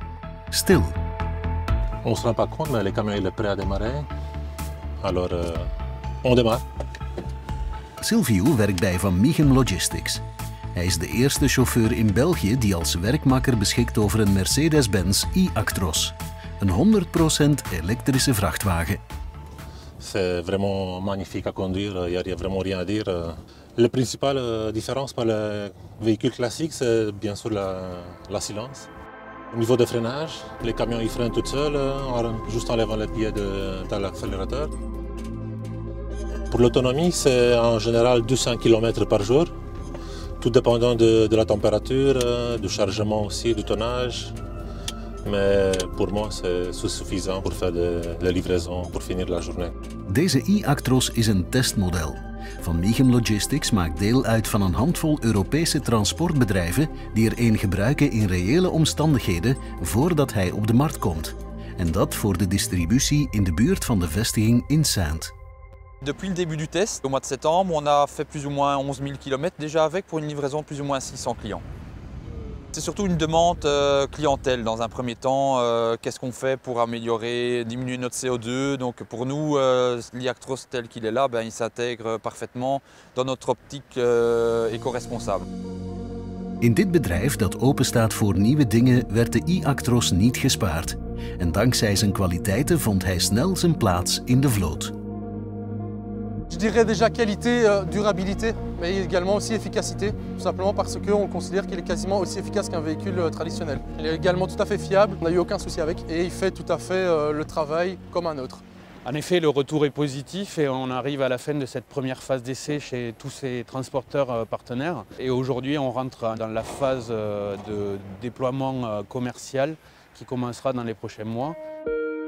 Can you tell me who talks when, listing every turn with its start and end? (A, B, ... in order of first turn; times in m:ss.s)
0:00.5-0:01.0 A
0:02.0-0:04.1 B
0:05.0-0:05.7 B
0:06.2-0:06.6 B
0:08.0-0:10.2 A
0:10.8-0:19.0 A
0:20.0-0:28.9 B
0:29.5-0:34.7 B
0:36.5-0:39.5 B
0:40.4-0:44.4 B
0:45.2-0:49.7 B
0:50.1-1:05.3 A
1:06.0-1:11.6 C
1:12.7-1:25.4 C
1:26.6-1:34.9 A
1:36.5-1:48.6 D
1:49.0-2:01.6 E